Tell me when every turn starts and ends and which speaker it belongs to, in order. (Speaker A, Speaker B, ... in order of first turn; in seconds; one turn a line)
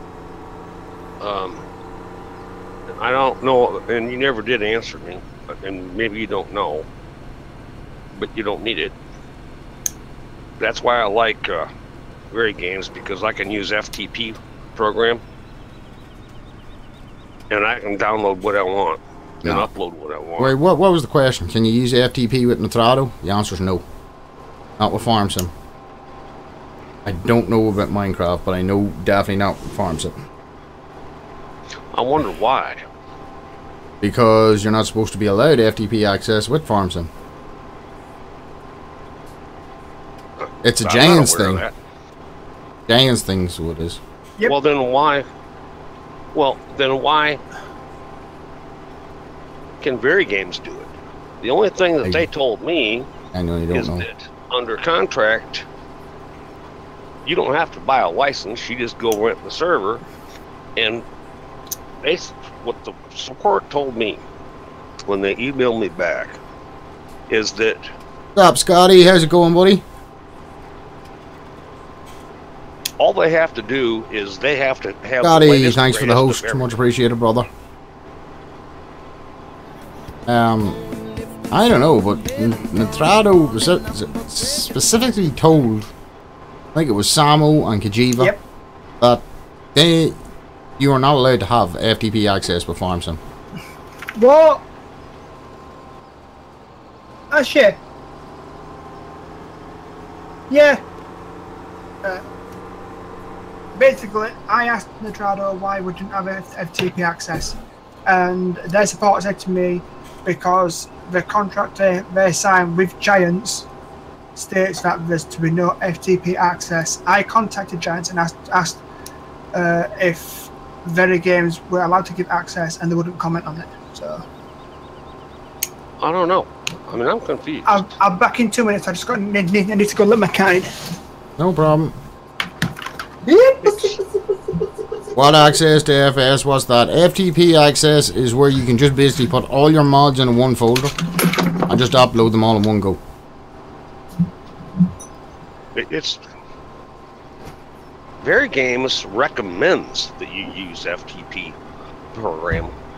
Speaker A: 1.2-1.7
Speaker A: 2.9-6.9
Speaker A: 8.2-8.9
Speaker A: 10.6-11.7
Speaker A: 12.3-15.2
Speaker A: 17.5-20.6
Speaker B: 19.4-19.7
Speaker B: 20.4-23.9
Speaker B: 24.8-25.5
Speaker B: 27.1-30.1
Speaker A: 31.9-32.8
Speaker B: 34.0-37.1
Speaker B: 40.6-41.7
Speaker A: 40.8-41.7
Speaker B: 42.9-44.0
Speaker A: 44.4-45.3
Speaker A: 46.3-47.4
Speaker A: 49.8-53.1
Speaker B: 52.0-52.3
Speaker B: 53.3-54.1
Speaker A: 53.7-55.7
Speaker A: 57.2-60.0
Speaker A: 60.8-61.0
Speaker A: 62.0-64.2
Speaker A: 65.1-66.4
Speaker A: 67.3-67.9
Speaker B: 68.3-69.8
Speaker A: 73.0-76.8
Speaker B: 75.2-77.5
Speaker B: 80.3-80.8
Speaker B: 81.5-85.9
Speaker B: 86.7-88.3
Speaker B: 89.8-90.2
Speaker B: 90.8-93.2
Speaker C: 94.2-94.7
Speaker C: 97.3-97.8
Speaker C: 100.5-100.8
Speaker C: 103.8-107.5
Speaker C: 108.1-113.7
Speaker C: 114.3-118.8
Speaker C: 119.5-124.2
Speaker A: 126.0-127.8
Speaker C: 127.7-130.7
Speaker B: 131.4-132.0
Speaker C: 133.3-134.0
Speaker B: 135.2-143.0
Speaker A: 145.8-146.2
Speaker A: 148.2-151.6
Speaker A: 152.1-152.7